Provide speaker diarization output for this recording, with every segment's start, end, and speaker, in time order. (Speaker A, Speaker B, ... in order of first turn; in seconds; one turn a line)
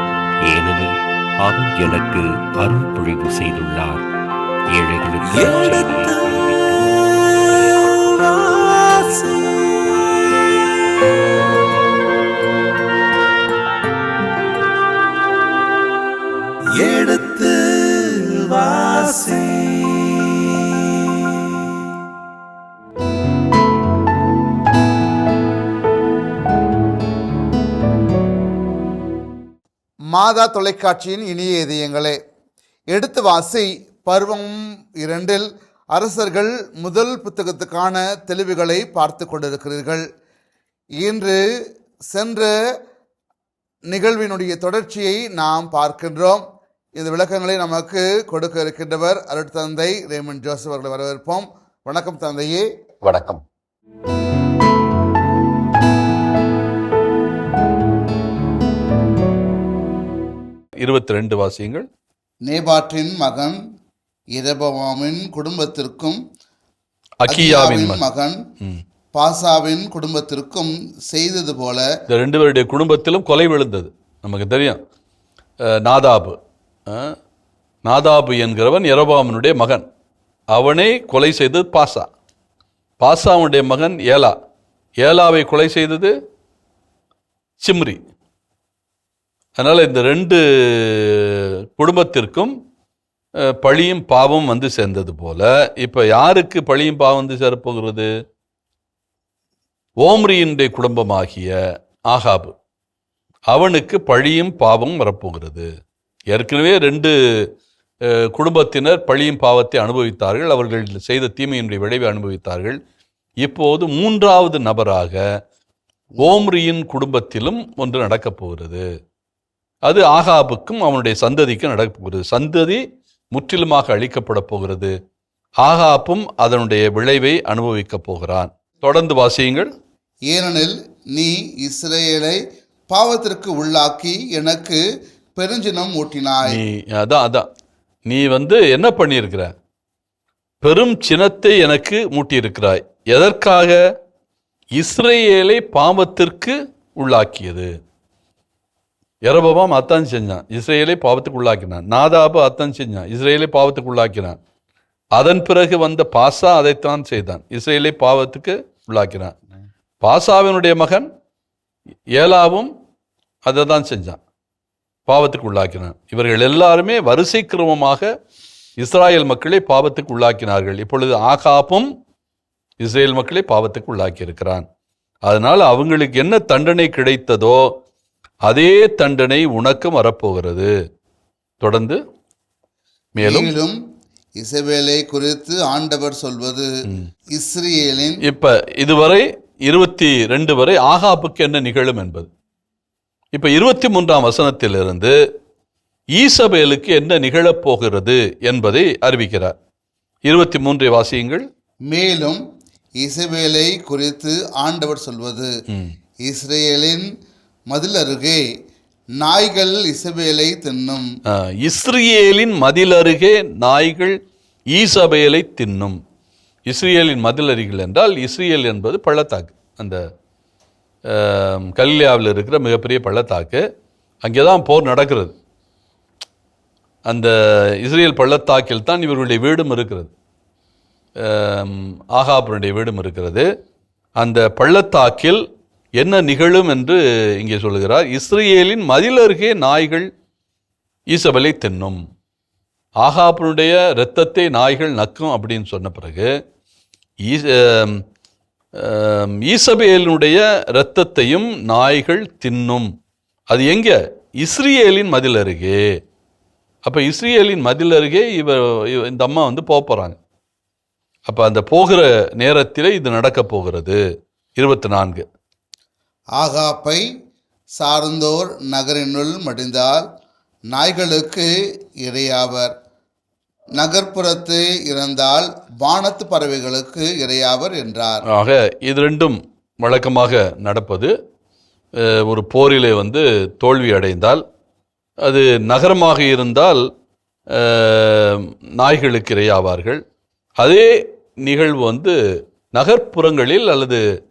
Speaker A: 0.5-4.0
Speaker A: 4.7-8.0
Speaker B: 5.3-11.3
Speaker B: 16.8-21.6
Speaker B: 30.1-32.2
Speaker B: 32.9-40.0
Speaker B: 41.0-41.4
Speaker B: 42.1-42.5
Speaker B: 43.9-46.4
Speaker B: 47.0-52.7
Speaker C: 53.1-53.4
Speaker C: 60.8-61.9
Speaker B: 62.5-63.6
Speaker B: 64.4-66.2
Speaker C: 67.2-68.0
Speaker B: 67.3-68.4
Speaker B: 69.1-71.9
Speaker C: 72.1-74.8
Speaker C: 75.7-76.4
Speaker C: 76.9-77.2
Speaker C: 77.8-79.8
Speaker C: 80.5-82.1
Speaker C: 83.0-84.3
Speaker C: 85.0-86.1
Speaker C: 87.6-88.0
Speaker C: 89.6-92.5
Speaker C: 93.4-98.1
Speaker C: 100.0-101.6
Speaker C: 102.1-102.5
Speaker C: 103.5-105.7
Speaker C: 106.3-107.2
Speaker C: 108.1-112.8
Speaker C: 113.4-115.2
Speaker C: 116.2-118.8
Speaker C: 119.8-125.0
Speaker C: 125.6-129.7
Speaker B: 130.3-134.8
Speaker B: 135.3-136.6
Speaker C: 136.4-137.5
Speaker C: 138.1-139.5
Speaker C: 140.6-143.8
Speaker C: 144.8-147.7
Speaker C: 149.2-154.4
Speaker C: 155.2-159.3
Speaker C: 160.0-161.1
Speaker C: 162.2-162.7
Speaker C: 163.4-164.2
Speaker C: 165.1-168.1
Speaker C: 168.8-171.9
Speaker C: 172.8-174.7
Speaker C: 175.3-177.7
Speaker C: 178.5-180.7
Speaker C: 181.6-182.0
Speaker C: 183.2-183.5
Speaker B: 183.2-183.8
Speaker B: 184.4-186.7
Speaker B: 187.3-188.2
Speaker C: 188.2-192.3
Speaker C: 193.3-195.2
Speaker C: 196.2-199.6
Speaker C: 200.2-201.5
Speaker B: 201.9-202.4
Speaker B: 203.0-205.5
Speaker C: 205.7-205.9
Speaker B: 206.2-207.1
Speaker B: 207.7-208.4
Speaker B: 209.2-211.1
Speaker C: 211.3-214.2
Speaker C: 214.7-216.0
Speaker C: 216.7-220.0
Speaker C: 221.1-223.6
Speaker C: 224.2-225.3
Speaker C: 227.1-230.1
Speaker C: 231.2-233.5
Speaker C: 234.2-235.4
Speaker C: 236.0-240.1
Speaker C: 241.1-242.0
Speaker C: 243.0-246.3
Speaker C: 247.2-248.0
Speaker C: 248.8-252.9
Speaker C: 253.5-256.0
Speaker C: 256.9-260.2
Speaker C: 261.3-264.0
Speaker C: 264.6-265.2
Speaker B: 266.4-267.1
Speaker B: 267.8-270.1
Speaker B: 270.7-272.8
Speaker B: 273.8-278.2
Speaker C: 278.3-281.1
Speaker C: 282.0-284.4
Speaker C: 285.2-286.9
Speaker C: 287.5-290.0
Speaker C: 290.6-292.2
Speaker C: 292.8-294.0